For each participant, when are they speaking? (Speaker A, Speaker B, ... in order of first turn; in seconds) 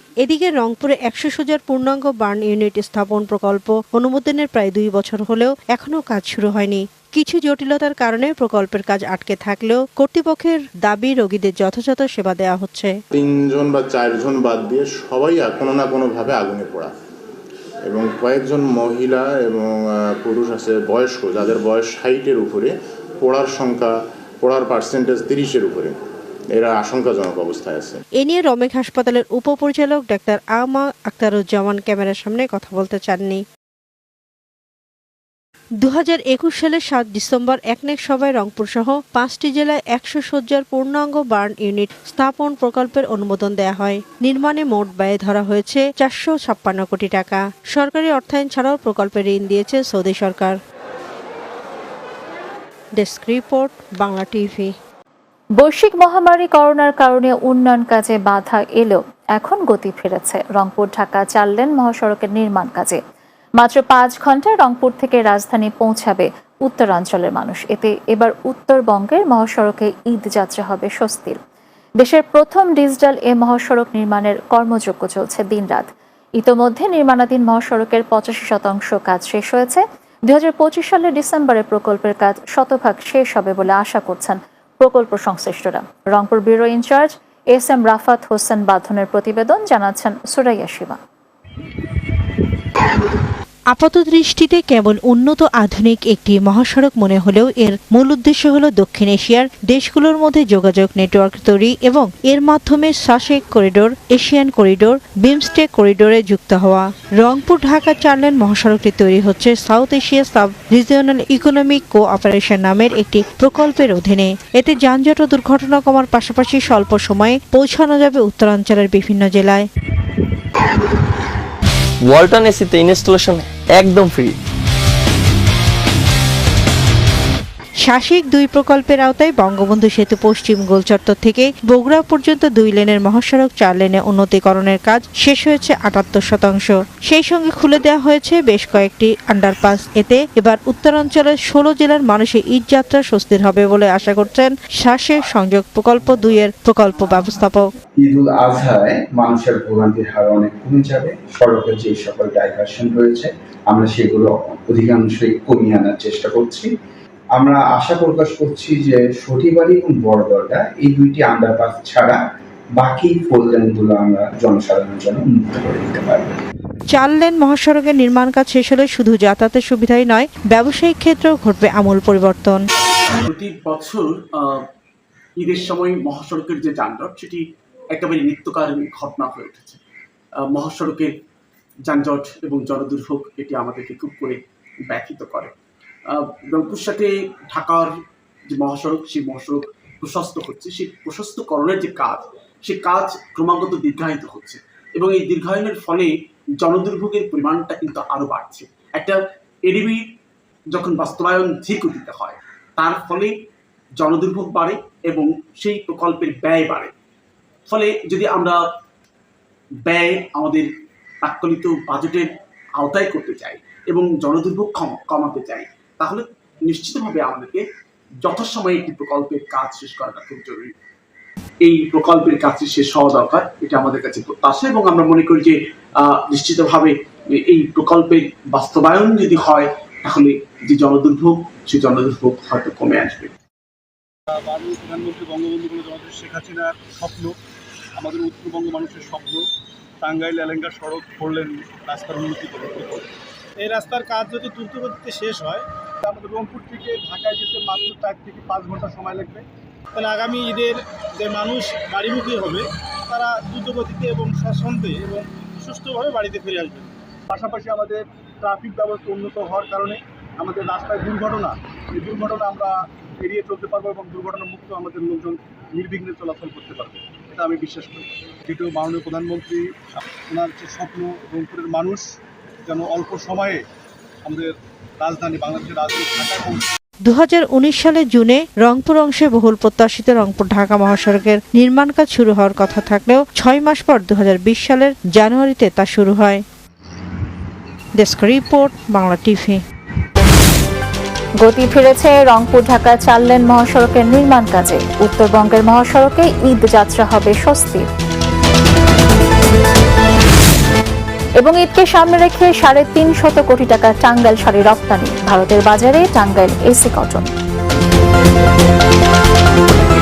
Speaker A: 0.2-13.0, 28.2-33.4, 35.8-50.5, 53.0-54.7, 93.7-119.7, 127.8-147.7, 166.9-172.6, 277.1-286.4, 288.0-289.6
Speaker B: 13.1-16.9, 17.9-26.0, 26.6-28.0
Speaker C: 55.6-63.0, 63.6-71.4, 72.0-75.9, 76.4-91.0, 291.4-297.9, 301.4-307.3
Speaker D: 122.0-124.3
Speaker E: 148.0-156.7, 157.4-162.2, 162.8-166.4
Speaker F: 173.2-174.6, 175.4-177.4, 177.9-179.8, 180.5-181.1, 181.9-185.5, 186.1-187.9, 188.5-200.0, 200.7-203.3, 204.0-206.9, 207.7-208.6, 209.9-210.7, 211.2-217.6, 218.2-220.7, 221.6-226.9, 227.5-233.3
Speaker G: 234.3-237.3, 238.0-239.4, 240.0-243.1, 243.6-249.4, 250.0-262.7, 263.2-269.7, 270.3-272.1, 272.7-273.6, 274.3-276.6